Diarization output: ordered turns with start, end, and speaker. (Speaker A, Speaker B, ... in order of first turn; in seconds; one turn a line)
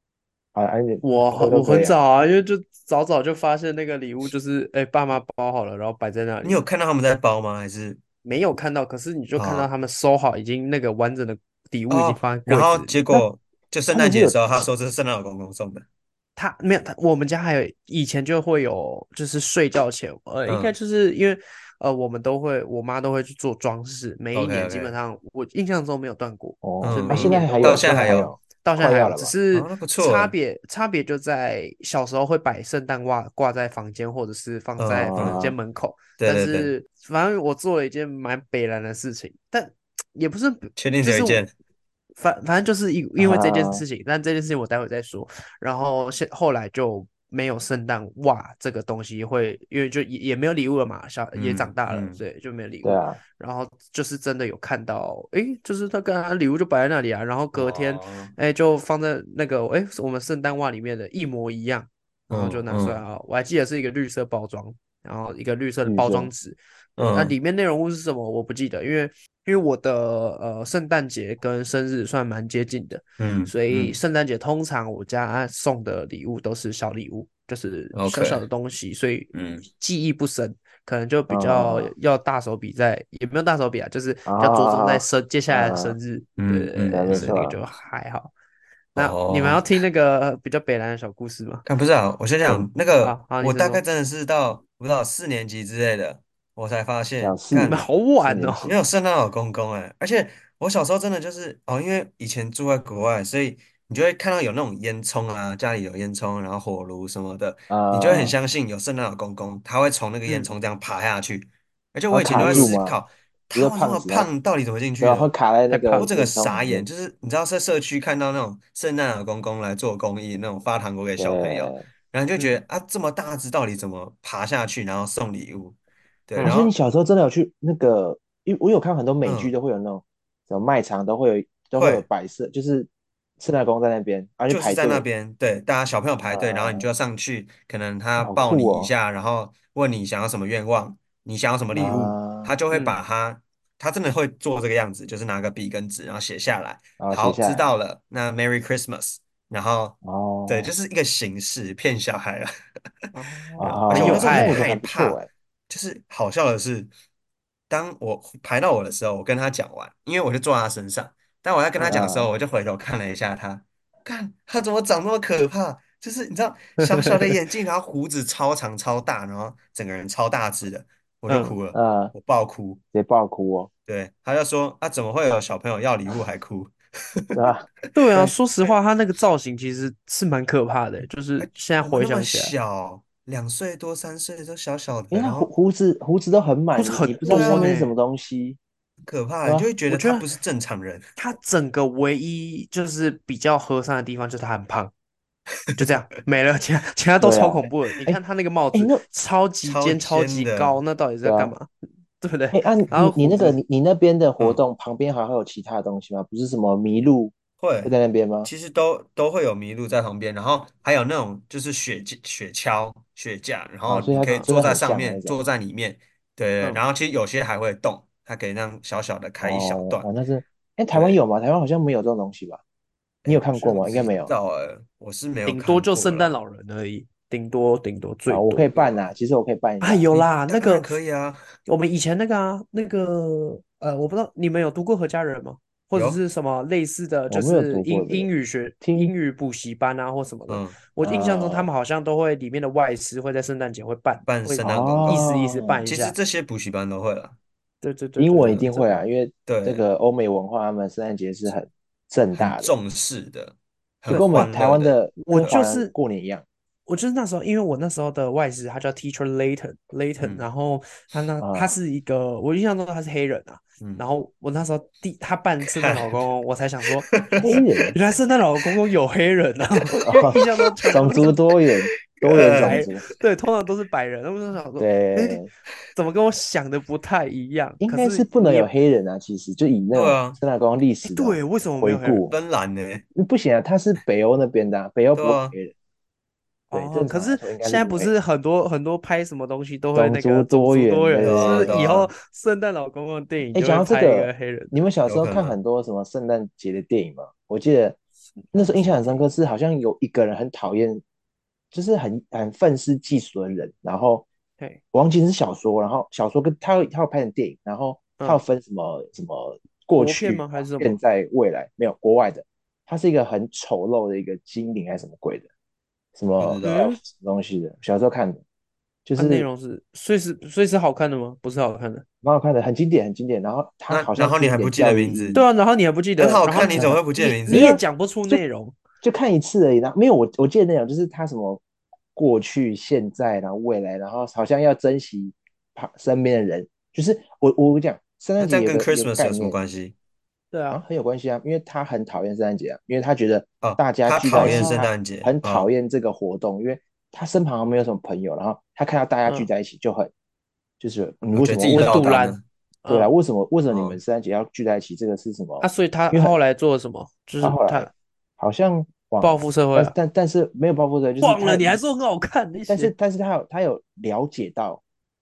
Speaker A: 0.5-2.0
Speaker B: 1.0-6.6
Speaker C: 6.4-8.0
Speaker B: 8.2-13.0
Speaker C: 9.4-9.7
Speaker C: 11.9-15.8
Speaker A: 13.9-14.7
Speaker B: 16.4-41.4
Speaker C: 20.5-20.7
Speaker C: 24.3-24.9
Speaker A: 26.6-29.3
Speaker C: 26.8-28.3
Speaker C: 29.5-30.3
Speaker C: 34.8-35.4
Speaker A: 35.1-35.5
Speaker C: 36.2-36.7
Speaker C: 40.8-41.5
Speaker B: 42.2-88.3
Speaker A: 43.2-43.8
Speaker C: 51.3-52.2
Speaker A: 52.8-53.2
Speaker C: 57.5-58.3
Speaker C: 62.3-63.0
Speaker A: 65.8-66.3
Speaker C: 67.0-67.3
Speaker C: 73.2-74.0
Speaker C: 77.9-78.4
Speaker C: 79.3-79.7
Speaker A: 81.3-81.9
Speaker A: 84.2-86.0
Speaker C: 86.4-87.3
Speaker A: 86.9-87.6
Speaker C: 89.0-89.6
Speaker B: 89.0-91.6
Speaker C: 91.6-97.8
Speaker B: 93.0-93.8
Speaker A: 97.2-98.7
Speaker B: 97.5-98.7
Speaker C: 98.6-115.3
Speaker A: 107.7-108.3
Speaker A: 112.1-113.0
Speaker B: 112.2-112.8
Speaker A: 113.5-114.3
Speaker A: 115.0-116.8
Speaker B: 115.7-116.1
Speaker C: 115.9-125.8
Speaker A: 121.2-121.9
Speaker C: 126.3-126.7
Speaker A: 126.4-132.9
Speaker C: 129.2-129.5
Speaker C: 131.7-132.0
Speaker A: 133.4-135.1
Speaker C: 134.5-152.5
Speaker A: 136.3-136.9
Speaker A: 138.2-138.9
Speaker A: 141.7-142.5
Speaker B: 142.7-143.0
Speaker A: 147.0-147.7
Speaker A: 150.0-150.7
Speaker B: 153.1-154.8
Speaker A: 153.6-155.3
Speaker C: 153.6-156.9
Speaker C: 157.7-172.8
Speaker A: 161.8-162.3
Speaker B: 166.8-167.3
Speaker B: 171.3-171.5
Speaker A: 171.7-172.1
Speaker A: 172.9-173.7
Speaker C: 173.9-177.4
Speaker A: 177.3-177.7
Speaker B: 177.9-182.5
Speaker C: 178.2-178.7
Speaker C: 181.4-185.5
Speaker A: 185.1-188.6
Speaker B: 186.7-187.9
Speaker C: 187.3-187.7
Speaker C: 189.0-191.2
Speaker A: 189.4-189.7
Speaker B: 189.9-190.3
Speaker B: 191.2-194.9
Speaker B: 195.8-201.7
Speaker A: 197.2-198.2
Speaker A: 198.7-199.0
Speaker C: 199.6-200.8
Speaker A: 201.2-201.5
Speaker B: 202.2-203.6
Speaker A: 202.5-208.5
Speaker C: 207.6-207.9
Speaker C: 208.4-220.1
Speaker A: 213.9-215.4
Speaker B: 214.1-214.5
Speaker A: 219.4-222.6
Speaker C: 220.9-221.2
Speaker C: 223.2-226.4
Speaker A: 223.3-224.3
Speaker B: 225.5-228.8
Speaker A: 228.3-230.1
Speaker B: 229.8-230.9
Speaker C: 230.1-231.5
Speaker B: 231.7-246.2
Speaker C: 235.9-236.2
Speaker A: 237.3-238.3
Speaker A: 238.8-239.1
Speaker C: 240.5-240.8
Speaker A: 241.0-241.7
Speaker C: 244.2-245.3
Speaker A: 244.6-245.8
Speaker C: 245.8-247.4
Speaker B: 247.8-249.0
Speaker A: 248.2-252.7
Speaker C: 249.5-249.8
Speaker C: 252.3-255.6
Speaker A: 254.1-256.4
Speaker B: 255.2-255.9
Speaker B: 256.9-271.4
Speaker A: 261.4-261.7
Speaker C: 265.8-266.1
Speaker C: 267.0-267.6
Speaker A: 267.4-267.9
Speaker C: 269.8-271.4
Speaker A: 270.0-270.4
Speaker A: 270.9-273.0
Speaker C: 272.2-272.9
Speaker B: 272.3-275.4
Speaker A: 274.8-275.5
Speaker B: 275.9-278.7
Speaker A: 277.8-282.3
Speaker C: 279.9-280.4
Speaker B: 281.0-282.2
Speaker C: 282.3-283.0
Speaker A: 283.1-285.7
Speaker C: 285.1-285.5
Speaker B: 286.7-294.8
Speaker A: 286.7-288.1
Speaker A: 289.9-291.8
Speaker C: 291.2-292.1
Speaker A: 293.5-298.0
Speaker C: 295.1-295.6
Speaker B: 298.5-299.3
Speaker A: 298.5-301.0
Speaker A: 301.7-304.3
Speaker A: 304.9-315.5
Speaker B: 310.0-311.0
Speaker A: 316.1-318.4
Speaker C: 316.4-316.9
Speaker B: 316.6-317.0
Speaker A: 319.1-319.4
Speaker B: 319.2-322.0
Speaker A: 322.2-325.4
Speaker C: 323.9-325.4
Speaker B: 325.3-328.8
Speaker C: 326.2-327.8
Speaker A: 326.6-328.4
Speaker A: 329.0-331.6
Speaker A: 332.1-339.6
Speaker C: 338.4-339.9
Speaker B: 340.5-340.8
Speaker A: 340.7-350.1
Speaker C: 343.6-345.7
Speaker B: 344.3-344.9
Speaker A: 350.8-352.1
Speaker C: 351.4-352.4
Speaker B: 351.7-353.1
Speaker A: 352.9-356.3
Speaker C: 353.7-354.0
Speaker B: 355.6-357.9
Speaker A: 357.4-361.8
Speaker B: 359.2-359.9
Speaker B: 361.2-362.9
Speaker A: 362.7-364.8